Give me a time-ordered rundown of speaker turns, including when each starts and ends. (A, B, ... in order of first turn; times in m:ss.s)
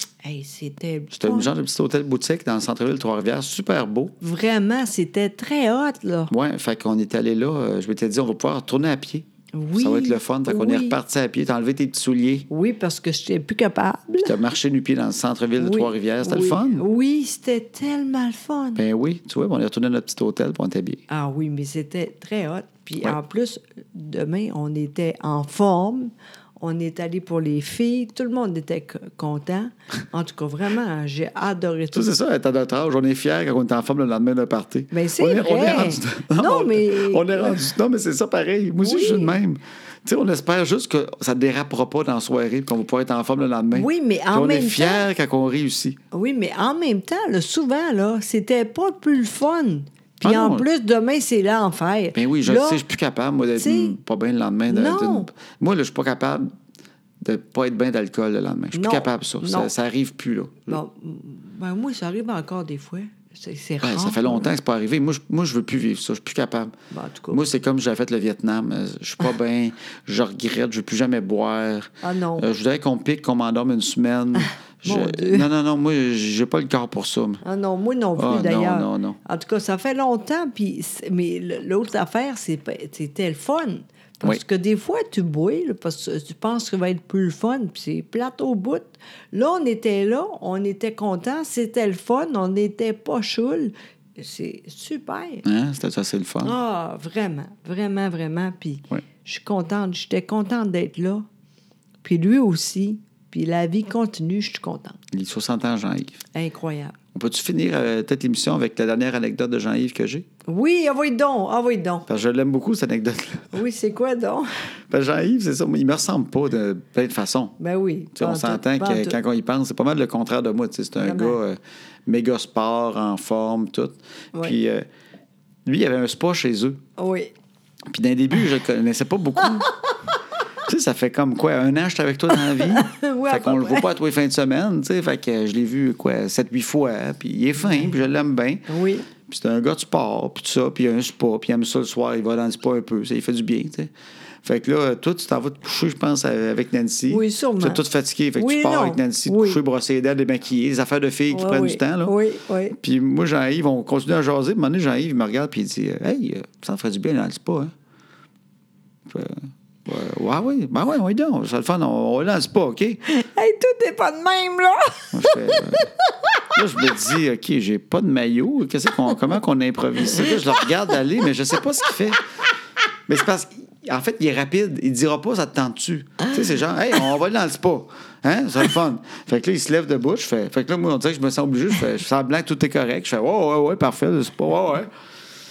0:00.2-0:01.5 A
0:01.1-0:04.2 B
0:04.2-0:06.3 A
0:06.3-0:12.5 B
0:09.5-0:11.0 A
0:12.5-0:14.3 A
0:14.2-0:16.8 B
0:15.6-0:18.8 A
0:18.8-0:21.0 B
0:21.1-0:32.1 A
0:31.9-0:46.0 B
0:34.9-0:37.7 A
0:38.8-0:39.4 A
0:43.7-0:45.0 A
0:46.1-0:52.8 A
0:50.2-0:50.7 B
0:52.2-0:56.5 B
0:53.6-0:54.0 A
0:54.7-0:55.3 A
0:57.2-1:00.8 B
0:58.7-0:59.7 A
1:00.7-1:04.5 A
1:03.8-1:06.8 B
1:06.9-1:07.4 A
1:07.3-1:17.4 B
1:12.0-1:12.5 A
1:14.8-1:15.5 A
1:17.4-1:35.4 A
1:18.2-1:19.2 B
1:35.4-1:36.6 B
1:36.4-1:41.2 A
1:42.0-1:45.0 A
1:45.1-1:46.2 B
1:46.3-1:47.0 A
1:47.1-1:50.3 B
1:50.5-1:52.1 A
1:52.1-1:53.6 B
1:53.5-1:54.5 A
1:54.9-1:57.6 B
1:57.6-1:59.2 A
1:58.2-2:04.8 B
2:01.0-2:01.4 A
2:05.7-2:06.8 B
2:07.0-2:07.3 A
2:07.9-2:09.7 B
2:10.7-2:18.7 B
2:12.7-2:13.9 A
2:17.6-2:17.9 A
2:18.7-2:19.1 A
2:19.2-2:23.9 B
2:24.4-2:32.1 B
2:27.1-2:27.8 A
2:28.4-2:29.6 A
2:31.3-2:32.8 A
2:32.8-2:37.7 B
2:39.1-2:43.0 B
2:43.1-2:45.8 A
2:45.1-2:45.9 B
2:46.5-2:52.2 B
2:53.1-3:04.9 B